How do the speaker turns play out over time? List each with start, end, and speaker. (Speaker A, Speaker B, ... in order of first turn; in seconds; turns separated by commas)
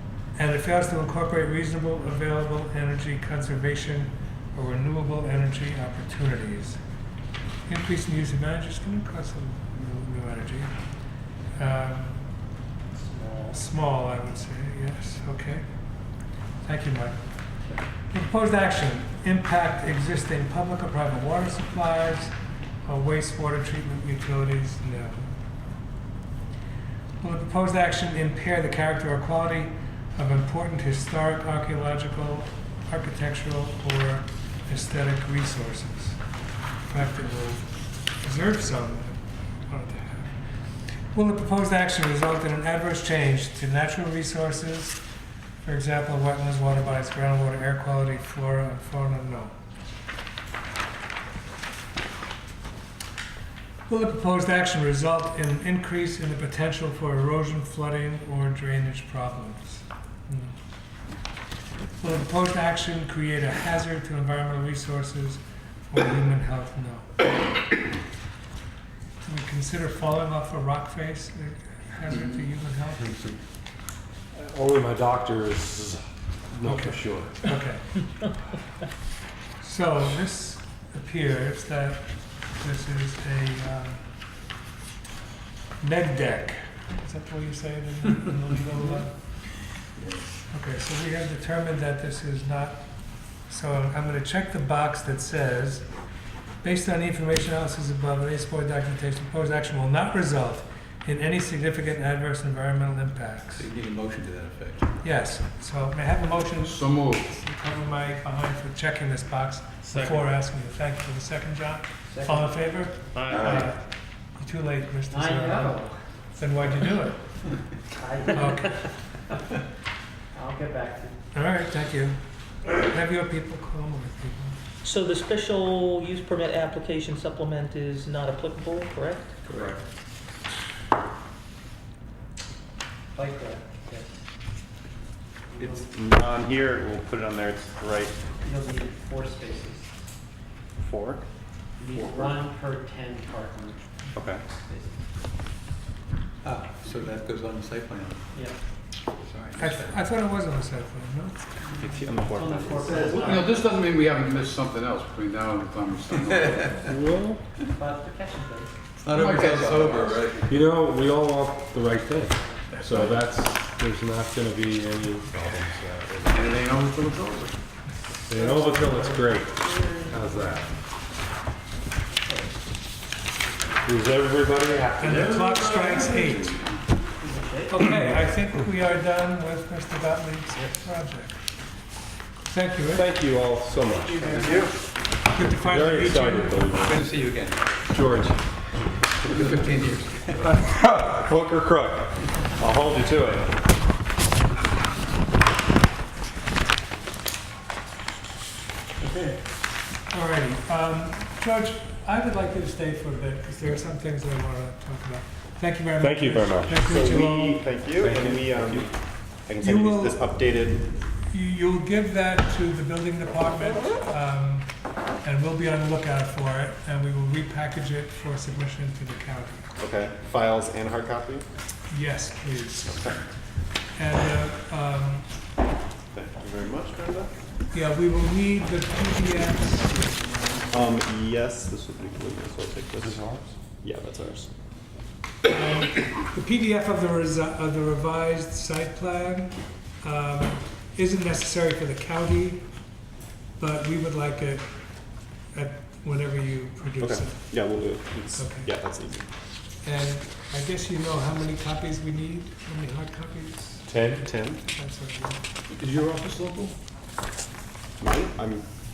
Speaker A: 0.3-6.8, Speaker A: 7.7-10.7, Speaker A: 11.6-12.3, Speaker B: 12.9-13.6, Speaker A: 13.5-15.7, Speaker A: 16.6-17.2, Speaker A: 18.1-25.3, Speaker A: 27.2-36.2, Speaker A: 36.9-40.4, Speaker A: 41.1-45.0, Speaker A: 45.6-49.5, Speaker A: 53.9-60.5, Speaker A: 62.0-67.1, Speaker A: 69.2-73.2, Speaker C: 74.3-76.0, Speaker C: 76.5-77.4, Speaker A: 76.7-78.3, Speaker A: 79.6-84.0, Speaker A: 85.8-89.2, Speaker A: 90.5-92.9, Speaker A: 93.4-95.9, Speaker A: 96.6-103.7, Speaker D: 103.5-104.9, Speaker A: 105.0-113.8, Speaker E: 106.6-107.3, Speaker B: 112.1-112.5, Speaker F: 113.1-113.7, Speaker A: 114.3-117.2, Speaker B: 115.1-116.0, Speaker B: 117.9-118.9, Speaker A: 118.2-118.8, Speaker B: 120.3-121.2, Speaker A: 121.3-122.2, Speaker A: 122.7-124.6, Speaker G: 124.8-129.3, Speaker B: 133.1-134.2, Speaker B: 135.5-135.9, Speaker F: 135.6-138.2, Speaker B: 138.4-139.9, Speaker F: 140.8-141.2, Speaker B: 141.8-143.8, Speaker F: 141.9-142.4, Speaker F: 144.1-144.4, Speaker B: 144.7-145.0, Speaker D: 146.4-148.2, Speaker B: 148.3-148.6, Speaker D: 149.2-150.0, Speaker A: 149.6-151.5, Speaker F: 151.7-153.3, Speaker B: 152.3-153.6, Speaker D: 152.9-154.5, Speaker E: 153.3-156.8, Speaker D: 156.1-156.9, Speaker C: 156.8-157.4, Speaker B: 157.7-158.7, Speaker D: 159.0-160.5, Speaker E: 159.1-160.2, Speaker C: 160.5-166.6, Speaker E: 166.3-167.6, Speaker C: 168.3-170.8, Speaker B: 168.3-170.3, Speaker B: 172.2-172.5, Speaker C: 173.8-175.7, Speaker A: 175.0-176.6, Speaker B: 177.2-177.8, Speaker A: 177.7-181.4, Speaker A: 182.5-183.1, Speaker C: 182.9-184.3, Speaker B: 184.2-184.6, Speaker F: 184.2-184.7, Speaker A: 185.3-186.6, Speaker C: 185.6-187.1, Speaker D: 186.8-187.6, Speaker C: 187.9-188.4, Speaker D: 189.2-190.4, Speaker C: 190.4-193.5, Speaker A: 200.1-207.6, Speaker C: 206.0-206.9, Speaker F: 206.8-208.9, Speaker C: 208.0-208.9, Speaker F: 209.4-210.8, Speaker A: 209.6-210.2, Speaker A: 211.3-214.7, Speaker A: 215.2-219.7, Speaker F: 219.8-221.4, Speaker A: 221.9-223.2, Speaker F: 222.9-223.2, Speaker A: 223.9-225.3, Speaker F: 226.1-227.3, Speaker A: 227.7-230.2, Speaker F: 230.7-233.2, Speaker C: 233.0-233.5, Speaker F: 233.8-234.5, Speaker A: 235.5-242.7, Speaker A: 243.6-244.7, Speaker A: 245.5-247.4, Speaker F: 247.0-249.3, Speaker A: 248.4-248.7, Speaker A: 249.8-254.0, Speaker F: 253.9-254.6, Speaker A: 254.6-255.4, Speaker E: 255.7-256.7, Speaker F: 258.0-258.6